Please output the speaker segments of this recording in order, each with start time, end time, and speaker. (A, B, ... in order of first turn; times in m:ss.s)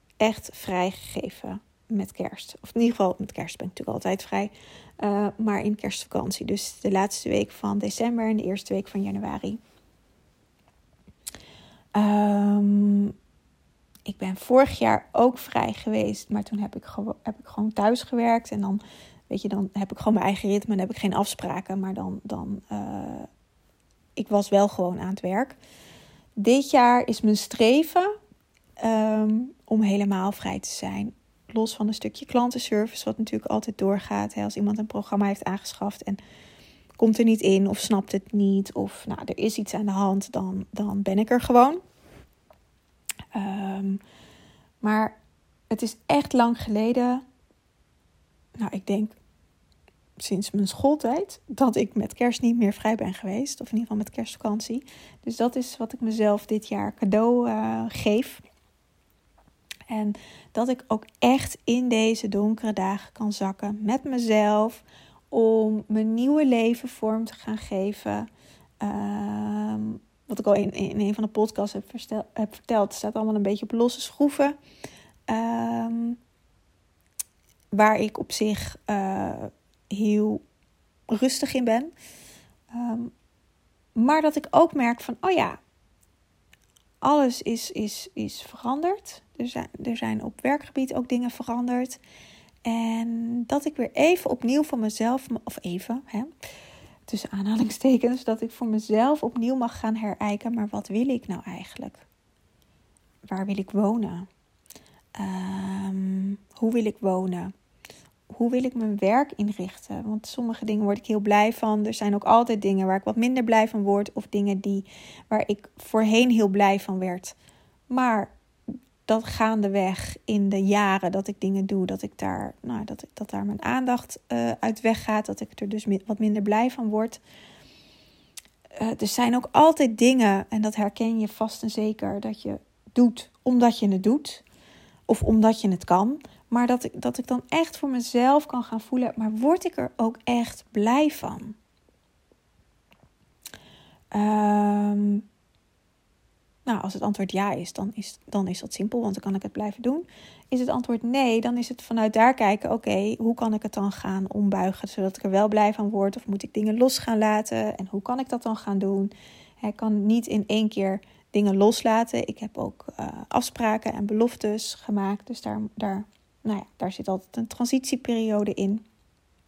0:00.2-0:09.6 A
0:11.9-0:13.1 A
0:14.0-0:23.3 A
0:24.2-0:25.6 A
0:26.4-0:28.1 A
0:28.8-0:36.2 A
0:37.0-0:41.8 A
0:43.3-0:44.0 A
0:44.8-0:45.2 A
0:45.7-0:47.2 A
0:48.6-0:49.2 A
0:50.2-0:58.4 A
0:59.9-1:08.3 A
1:08.8-1:14.6 A
1:15.3-1:16.2 A
1:17.7-1:20.4 A
1:21.1-1:21.9 A
1:22.7-1:23.1 A
1:24.0-1:25.6 A
1:27.0-1:32.0 A
1:32.6-1:36.3 A
1:37.1-1:42.0 A
1:43.3-1:44.3 A
1:45.2-1:47.5 A
1:48.3-1:57.3 A
1:57.9-1:58.3 A
1:59.0-2:07.2 A
2:08.8-2:14.4 A
2:15.1-2:21.6 A
2:24.1-2:25.2 A
2:26.6-2:48.8 A